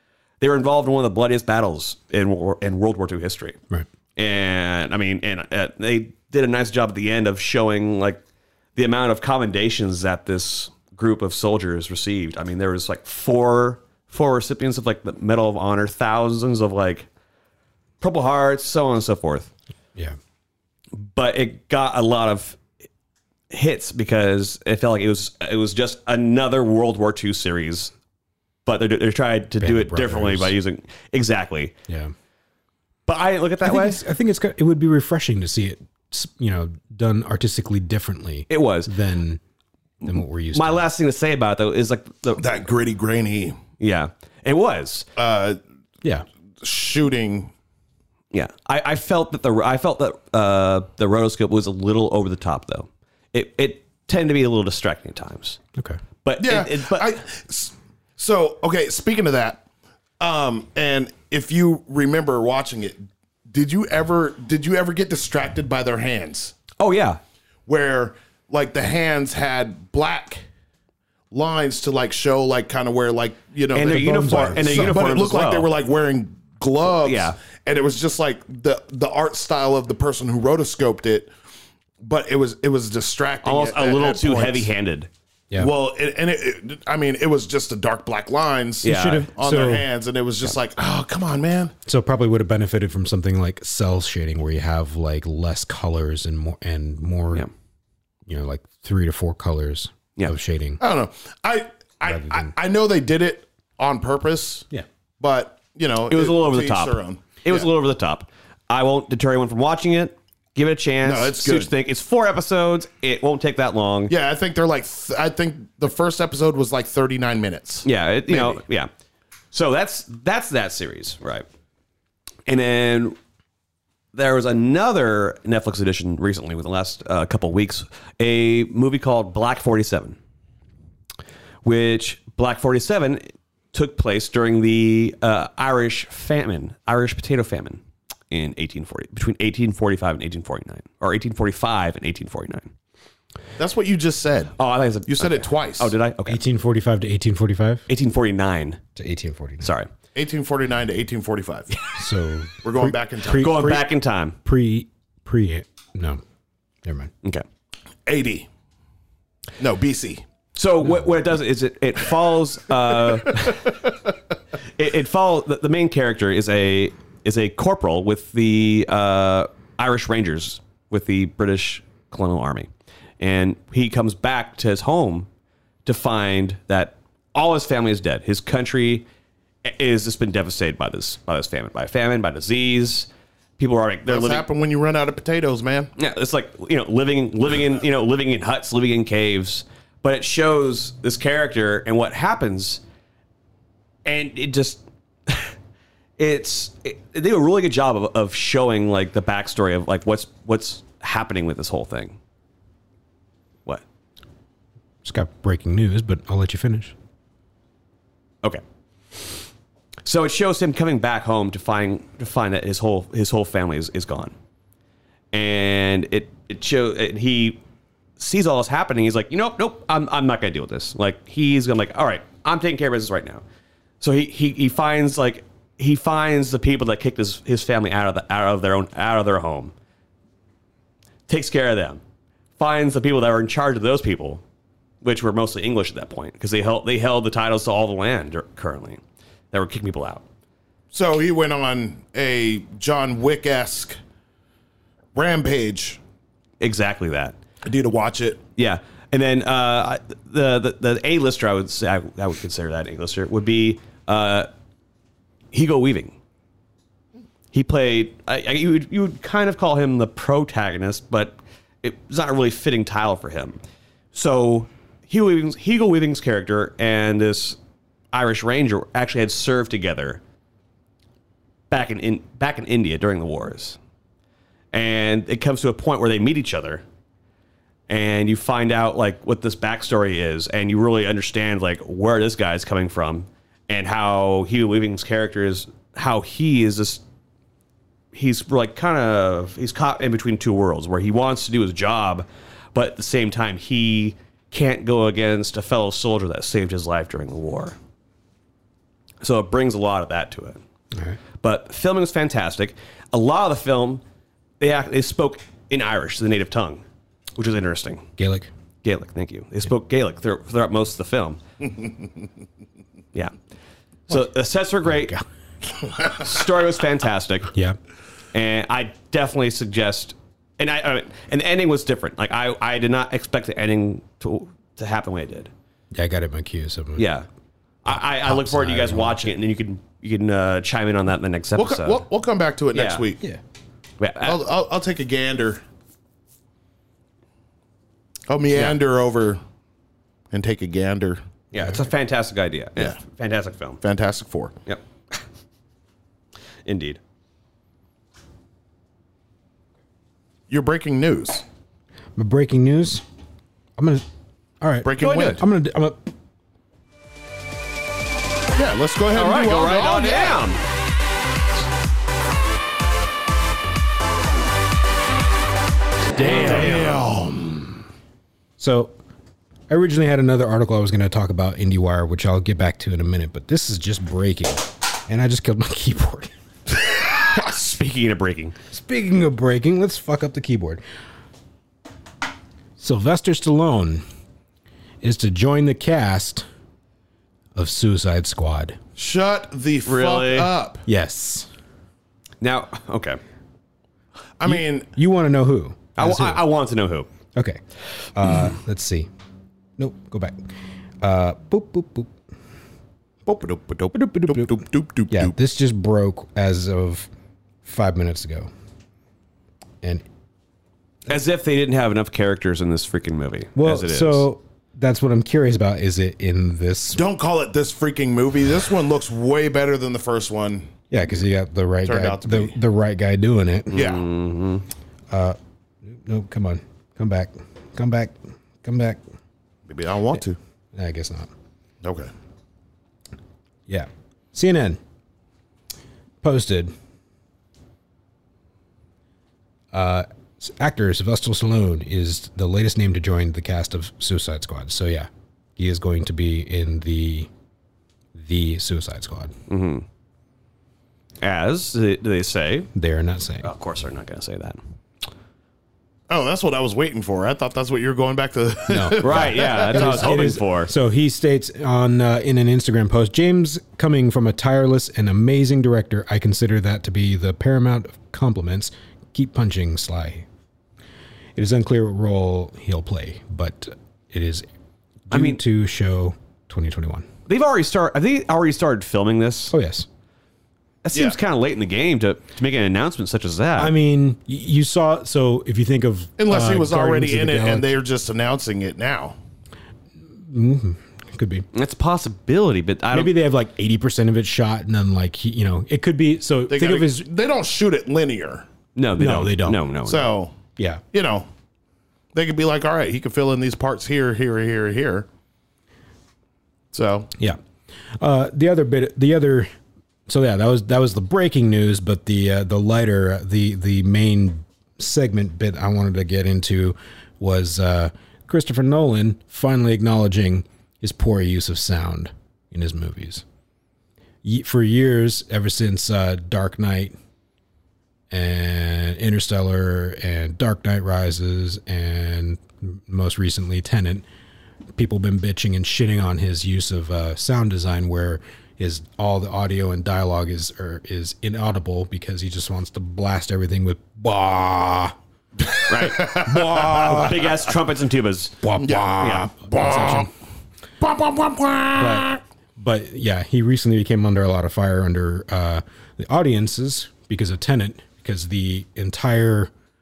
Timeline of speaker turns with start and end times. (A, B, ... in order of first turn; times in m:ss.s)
0:00.4-0:03.6 A
0:04.2-0:08.2 A
0:08.8-0:17.1 A
0:18.0-0:19.5 A
0:20.9-0:22.6 A
0:23.5-0:27.9 A
0:28.6-0:31.7 A
0:29.6-0:30.5 B
0:31.9-0:32.1 B
0:33.1-0:34.0 A
0:33.6-0:39.4 B
0:38.5-0:38.9 A
0:40.0-0:40.8 B
0:40.1-0:42.5 A
0:42.4-0:43.6 C
0:43.8-0:45.1 A
0:45.2-0:45.6 C
0:46.6-0:47.5 C
0:48.3-0:55.6 A
0:56.2-0:57.1 A
0:56.4-0:59.6 C
1:00.2-1:06.5 C
1:06.8-1:07.2 A
1:07.7-1:10.4 C
1:11.3-1:21.3 C
1:13.7-1:15.7 A
1:13.8-1:15.0 B
1:17.0-1:17.4 A
1:22.0-1:24.7 C
1:23.4-1:25.1 A
1:25.6-1:31.7 C
1:28.8-1:29.3 A
1:28.8-1:29.9 B
1:31.8-1:37.5 B
1:38.3-1:40.8 B
1:40.8-1:44.7 C
1:42.1-1:42.5 B
1:45.2-1:47.7 C
1:46.1-1:54.1 A
1:51.0-1:51.7 C
1:54.1-1:58.6 C
1:57.8-1:58.9 A
1:59.5-2:01.4 A
2:02.5-2:03.2 A
2:04.1-2:10.2 A
2:11.6-2:22.7 A
2:23.6-2:24.5 C
2:24.6-2:26.4 A
2:25.1-2:25.9 C
2:26.2-2:27.9 B
2:27.9-2:28.8 A
2:29.0-2:29.7 B
2:29.6-2:29.9 A
2:30.1-2:31.7 C
2:31.9-2:33.9 B
2:32.6-2:33.5 C
2:33.3-2:34.4 A
2:34.4-2:36.2 B
2:36.8-2:37.1 B
2:38.0-2:38.5 C
2:39.6-2:40.2 C
2:40.5-2:43.8 A
2:44.8-2:52.7 A
2:53.2-2:55.3 A
2:55.8-2:59.0 A
2:59.6-3:04.4 A
3:04.0-3:05.9 C
3:06.0-3:12.8 A
3:14.0-3:15.5 A
3:16.2-3:22.2 A
3:25.0-3:26.9 B
3:30.0-3:34.3 A
3:35.3-3:37.6 A
3:38.2-3:43.4 A
3:44.0-3:49.7 A
3:51.3-3:52.0 A
3:52.6-3:54.4 A
3:55.0-3:59.0 A
3:59.5-4:00.2 A
4:00.9-4:04.0 C
4:05.1-4:06.0 C
4:06.6-4:07.4 A
4:07.6-4:08.4 C
4:08.6-4:14.5 A
4:15.5-4:16.1 A
4:17.5-4:23.6 A
4:24.1-4:27.6 A
4:28.1-4:30.2 A
4:31.7-4:33.8 A
4:34.7-4:36.8 A
4:37.9-4:47.0 A
4:48.1-4:57.8 A
4:59.2-5:00.6 A
5:00.9-5:01.2 B
5:01.4-5:04.0 A
5:04.6-5:06.8 A
5:07.4-5:08.1 A
5:08.2-5:08.5 B
5:08.8-5:11.4 A
5:14.1-5:15.1 A
5:14.9-5:15.2 B
5:16.1-5:17.5 A
5:17.5-5:17.8 B
5:18.3-5:25.5 A
5:25.9-5:27.0 B
5:27.0-5:27.2 A
5:27.8-5:32.0 A
5:27.9-5:29.3 B
5:31.6-5:33.2 C
5:32.7-5:33.0 A
5:34.0-5:34.4 A
5:34.2-5:35.6 C
5:38.3-5:39.4 C
5:40.3-5:41.2 C
5:41.5-5:43.8 A
5:43.8-5:44.5 C
5:46.6-5:47.0 A
5:50.5-5:51.4 C
5:52.2-5:53.0 B
5:53.8-5:54.0 B
5:54.6-5:56.1 B
5:54.8-5:55.4 C
5:55.0-5:55.4 A
5:58.6-6:00.4 C
5:59.1-6:00.6 A
6:06.2-6:06.8 B
6:06.2-6:07.7 C
6:06.2-6:06.9 A
6:08.6-6:09.0 B
6:09.7-6:16.3 B
6:17.0-6:18.5 A
6:18.7-6:20.8 B
6:22.8-6:24.0 B
6:25.0-6:26.4 B
6:27.5-6:28.8 B
6:29.0-6:30.8 C
6:29.8-6:30.5 A
6:30.8-6:31.5 B
6:32.4-6:33.2 A
6:34.4-6:34.9 C
6:34.4-6:36.4 B
6:36.0-6:37.1 A
6:37.3-6:37.6 B
6:38.1-6:39.1 B
6:39.8-6:40.5 B
6:41.0-6:42.1 B
6:43.2-6:45.3 C
6:43.9-6:47.1 B
6:47.6-6:48.5 B
6:51.1-6:54.2 A
6:53.5-6:57.0 B
6:56.9-7:00.7 C
7:00.9-7:03.8 B
7:01.8-7:02.6 C
7:03.7-7:04.6 A
7:03.7-7:04.1 C
7:05.1-7:09.0 B
7:09.7-7:10.4 C
7:10.7-7:11.3 B
7:11.8-7:12.1 C
7:13.7-7:14.8 B
7:16.2-7:16.7 B
7:19.7-7:27.3 B
7:28.1-7:29.3 B
7:29.5-7:29.8 A
7:31.2-7:32.7 A
7:32.7-7:33.5 B
7:33.4-7:34.6 A
7:36.1-7:40.2 C
7:38.7-7:50.3 B
7:39.0-7:40.7 A
7:51.4-7:54.4 B
7:55.1-7:57.1 B
7:55.1-7:55.4 A
7:57.3-7:59.5 A
7:59.5-7:59.9 B
8:00.8-8:03.7 A
8:03.6-8:07.7 B
8:06.2-8:09.2 C
8:10.1-8:11.4 B
8:11.5-8:13.1 A
8:12.9-8:17.1 B
8:16.5-8:18.4 C
8:18.8-8:20.1 A
8:19.0-8:19.6 B
8:19.8-8:20.4 C
8:20.9-8:21.3 C
8:22.1-8:25.1 C
8:26.7-8:27.1 C
8:28.0-8:29.5 B
8:30.1-8:43.2 B
8:44.2-8:46.9 B
8:48.1-8:54.0 B
8:54.7-9:07.2 B
9:05.6-9:09.3 A
9:06.0-9:07.0 C
9:08.4-9:10.1 B
9:08.6-9:10.1 C
9:10.8-9:12.2 C
9:11.8-9:19.5 B